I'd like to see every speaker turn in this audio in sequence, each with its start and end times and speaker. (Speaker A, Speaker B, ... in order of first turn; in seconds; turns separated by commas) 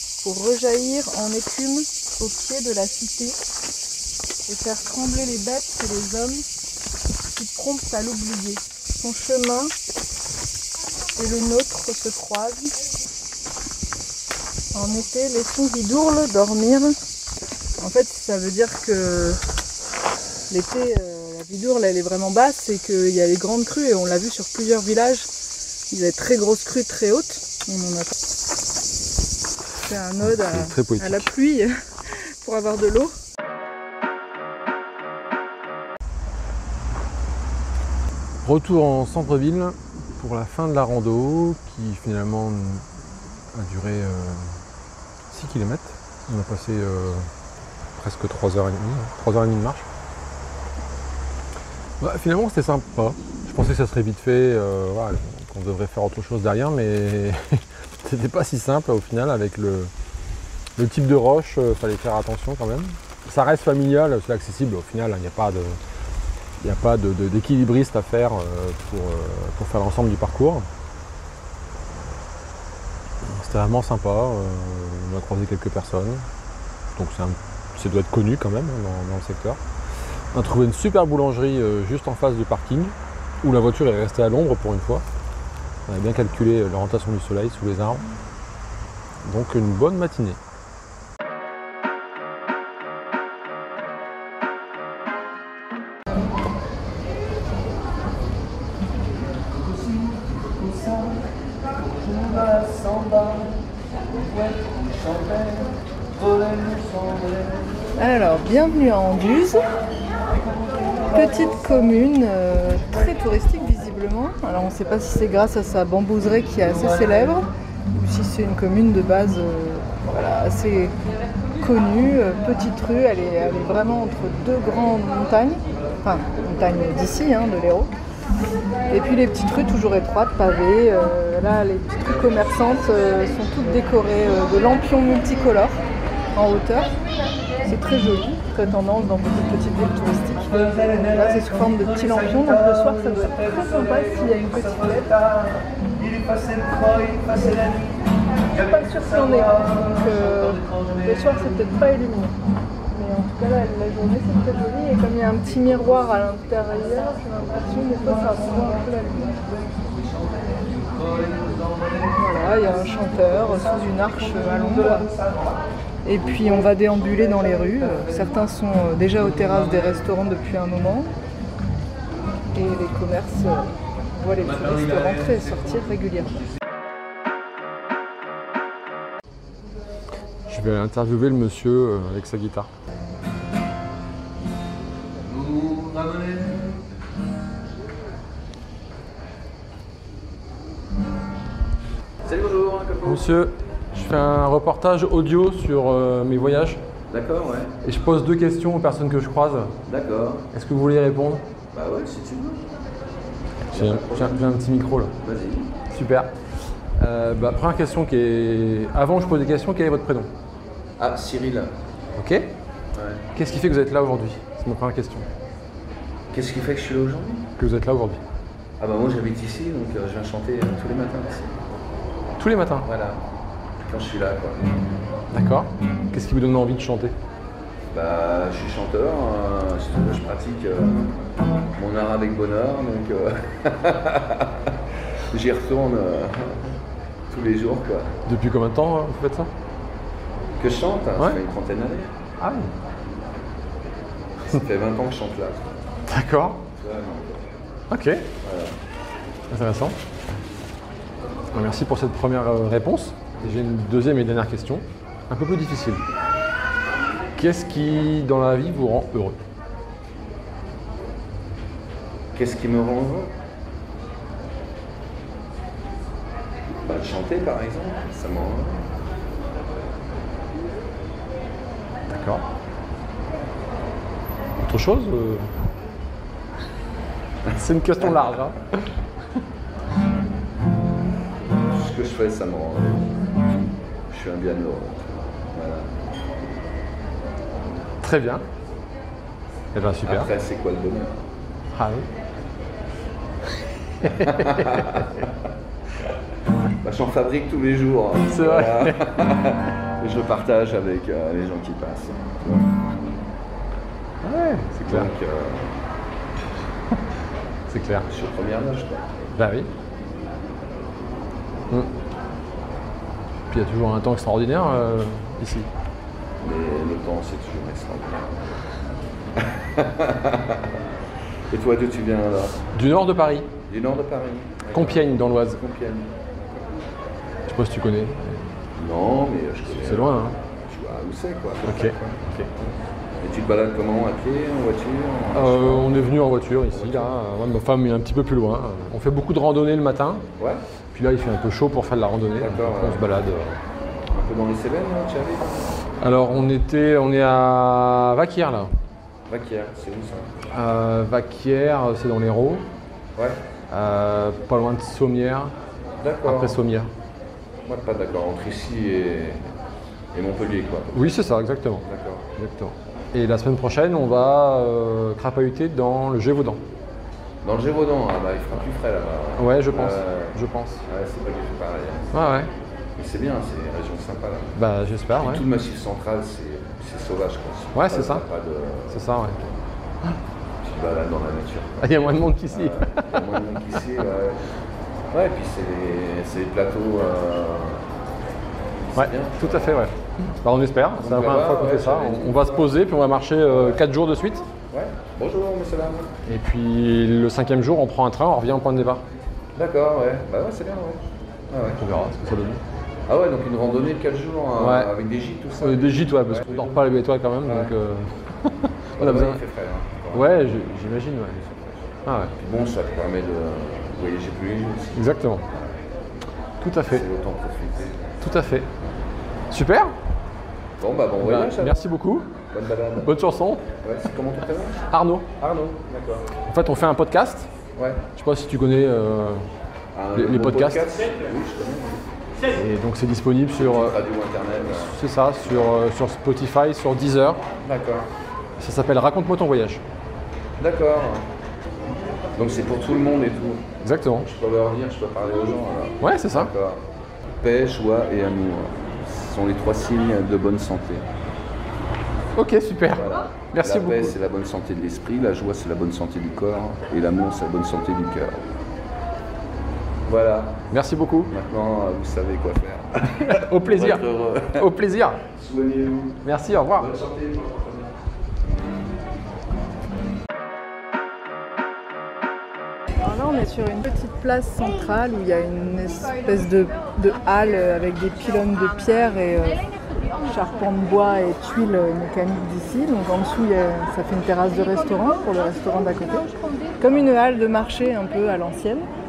Speaker A: 0.2-3.4, Speaker A: 4.5-6.4, Speaker A: 7.3-9.7, Speaker A: 11.2-12.8, Speaker A: 14.7-17.0, Speaker A: 17.8-19.4, Speaker A: 20.5-25.3, Speaker A: 25.9-28.1, Speaker A: 29.8-33.1, Speaker B: 30.2-31.3, Speaker B: 38.4-44.6, Speaker B: 45.3-47.3, Speaker B: 47.9-49.9, Speaker B: 52.0-59.9, Speaker B: 60.8-65.8, Speaker B: 66.6-70.7, Speaker B: 73.2-76.3, Speaker B: 77.0-79.6, Speaker B: 80.3-85.0, Speaker B: 85.8-88.1, Speaker B: 89.2-90.4, Speaker A: 108.0-109.7, Speaker A: 111.1-120.9, Speaker A: 121.6-127.9, Speaker A: 128.9-135.8, Speaker A: 136.3-136.9, Speaker A: 137.6-145.4, Speaker A: 146.2-147.8, Speaker A: 148.5-152.3, Speaker A: 152.9-159.4, Speaker A: 162.0-165.1, Speaker A: 166.0-171.1, Speaker A: 172.5-176.5, Speaker B: 180.5-182.7, Speaker C: 185.2-186.6, Speaker C: 192.2-193.2, Speaker B: 193.0-196.8, Speaker C: 197.1-197.7, Speaker B: 197.8-199.8, Speaker C: 199.8-200.5, Speaker B: 200.5-201.5, Speaker C: 201.7-202.6, Speaker B: 203.7-205.2, Speaker C: 203.7-204.4, Speaker C: 205.2-205.8, Speaker B: 205.9-206.4, Speaker B: 206.9-210.3, Speaker C: 211.0-211.7, Speaker B: 212.2-212.5, Speaker C: 212.9-213.2, Speaker B: 213.3-215.3, Speaker C: 216.3-217.5, Speaker B: 217.6-218.2, Speaker C: 218.8-221.6, Speaker B: 222.4-222.9, Speaker C: 222.8-223.2, Speaker C: 223.8-224.8, Speaker B: 225.3-227.2, Speaker C: 227.9-231.1, Speaker C: 231.7-234.8, Speaker C: 235.3-236.8, Speaker C: 237.3-238.2, Speaker B: 238.2-239.5, Speaker C: 240.6-242.2, Speaker B: 242.4-242.7, Speaker C: 244.3-245.7, Speaker B: 246.1-246.6, Speaker C: 246.7-247.5, Speaker B: 247.9-248.3, Speaker C: 248.4-248.8, Speaker B: 249.5-250.0, Speaker B: 251.5-256.0, Speaker B: 257.3-259.4, Speaker C: 262.3-263.3, Speaker C: 266.8-268.9, Speaker B: 272.1-272.4, Speaker B: 274.6-275.5, Speaker B: 277.5-278.9, Speaker C: 281.7-283.2, Speaker C: 284.1-285.9, Speaker B: 288.0-288.4, Speaker B: 289.7-290.3, Speaker C: 290.0-291.3, Speaker B: 291.7-292.1, Speaker B: 294.0-295.0, Speaker C: 294.1-295.3, Speaker C: 296.8-303.2, Speaker B: 298.3-299.1, Speaker B: 304.2-305.1, Speaker C: 304.8-305.8, Speaker B: 307.7-308.1, Speaker C: 308.1-309.2, Speaker B: 309.3-309.7, Speaker B: 313.5-315.7, Speaker C: 316.4-318.6, Speaker C: 319.4-320.8, Speaker C: 321.5-322.6, Speaker B: 322.7-323.5, Speaker C: 323.7-326.1, Speaker B: 324.7-325.6, Speaker B: 327.5-328.6, Speaker C: 328.7-332.2, Speaker B: 329.8-330.4, Speaker B: 331.6-332.5, Speaker C: 333.2-336.1, Speaker B: 335.3-340.2, Speaker C: 336.7-337.1, Speaker B: 340.9-343.6, Speaker C: 342.4-343.0, Speaker C: 344.1-345.9, Speaker B: 346.0-348.7, Speaker C: 349.3-350.3, Speaker B: 350.5-352.7, Speaker C: 353.1-353.4, Speaker B: 353.7-355.5, Speaker C: 356.0-356.6, Speaker B: 356.2-356.9, Speaker C: 357.6-359.5, Speaker C: 360.1-361.0, Speaker B: 360.9-361.8, Speaker C: 361.8-362.2, Speaker B: 362.4-366.6, Speaker C: 367.4-372.2, Speaker B: 369.3-370.8, Speaker B: 372.1-372.5, Speaker C: 372.9-374.5, Speaker B: 374.5-375.4, Speaker C: 375.1-379.0, Speaker B: 377.7-378.2, Speaker B: 378.9-379.4, Speaker C: 380.6-381.8, Speaker B: 381.8-383.4, Speaker C: 382.5-384.5, Speaker C: 385.1-387.9, Speaker C: 388.8-389.9, Speaker B: 388.9-394.5, Speaker C: 391.0-392.7, Speaker C: 393.5-393.8, Speaker C: 394.7-396.1, Speaker B: 396.2-399.0, Speaker C: 399.5-401.8, Speaker B: 401.8-402.6, Speaker C: 403.1-406.8, Speaker B: 404.6-404.9, Speaker B: 405.6-409.4, Speaker C: 407.4-407.7, Speaker C: 408.9-410.4, Speaker B: 410.1-411.4, Speaker C: 411.4-411.8, Speaker B: 412.0-412.3, Speaker C: 412.4-415.0, Speaker B: 414.9-415.4, Speaker B: 416.6-417.0, Speaker C: 416.9-418.1, Speaker B: 418.2-418.7, Speaker B: 419.5-420.0, Speaker C: 420.8-421.8, Speaker B: 421.2-422.3, Speaker C: 422.5-423.1, Speaker B: 422.9-423.6, Speaker C: 423.8-424.8, Speaker B: 424.9-425.3, Speaker C: 425.4-426.3, Speaker B: 426.4-427.5, Speaker C: 427.8-428.0, Speaker B: 428.1-429.4, Speaker C: 429.9-432.0, Speaker B: 430.1-430.9, Speaker B: 432.5-433.9, Speaker C: 433.5-434.9, Speaker B: 434.7-437.4, Speaker C: 437.6-438.1, Speaker B: 438.6-439.8, Speaker C: 440.6-441.3, Speaker C: 442.3-443.6, Speaker B: 443.8-444.3, Speaker C: 444.2-446.8, Speaker B: 446.0-446.5, Speaker C: 447.4-451.1, Speaker B: 452.3-454.1, Speaker C: 452.9-458.4, Speaker C: 460.0-460.6, Speaker B: 460.7-461.3, Speaker C: 461.3-464.7, Speaker B: 463.1-465.2, Speaker C: 465.2-467.9, Speaker B: 466.2-466.9, Speaker A: 473.0-479.6, Speaker A: 480.2-488.9